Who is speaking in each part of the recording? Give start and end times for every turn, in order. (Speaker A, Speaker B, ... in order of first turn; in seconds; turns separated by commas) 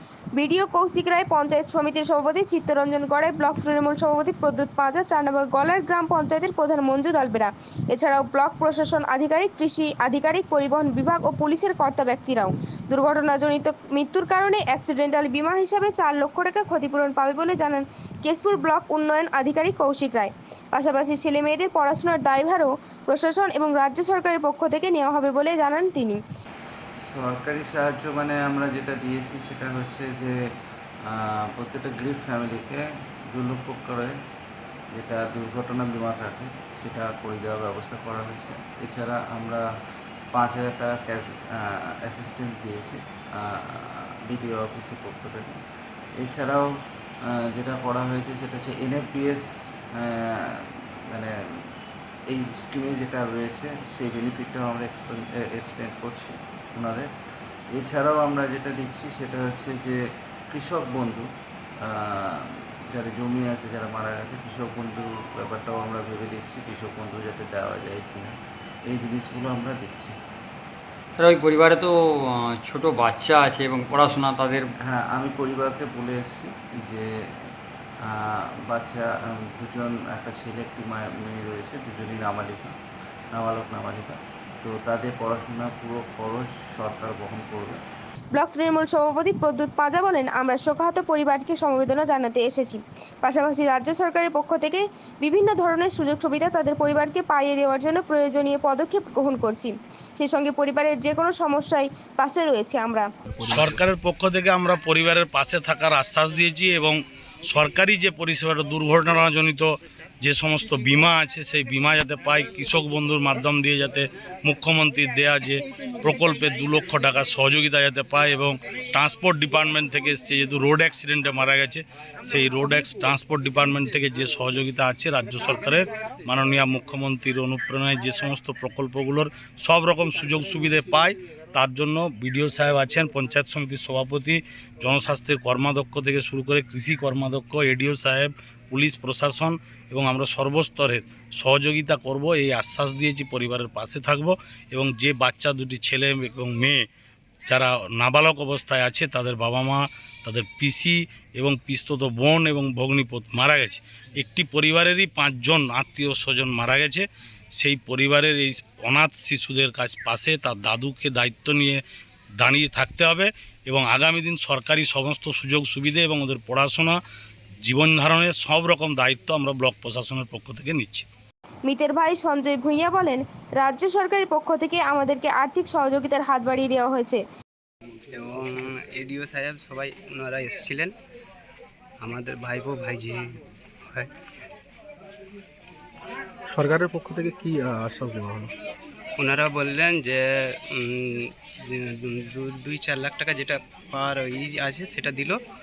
Speaker A: 0.3-26.2, Speaker B: 27.1-30.4, Speaker B: 31.1-34.1, Speaker B: 34.9-39.6, Speaker B: 40.3-45.6, Speaker B: 46.2-46.7, Speaker B: 47.3-51.3, Speaker B: 52.3-57.1, Speaker B: 57.7-61.3, Speaker B: 61.9-68.3, Speaker B: 68.8-70.1, Speaker C: 71.2-74.7, Speaker B: 74.8-77.1, Speaker B: 78.1-82.7, Speaker B: 83.3-87.8, Speaker A: 88.3-103.1, Speaker D: 103.3-103.7, Speaker E: 103.5-146.8, Speaker E: 147.5-157.0, Speaker E: 157.6-161.8, Speaker E: 162.4-167.0, Speaker E: 167.6-171.1, Speaker A: 171.7-177.2, Speaker F: 178.1-180.9, Speaker F: 182.0-183.3, Speaker D: 186.5-188.5, Speaker F: 189.2-195.4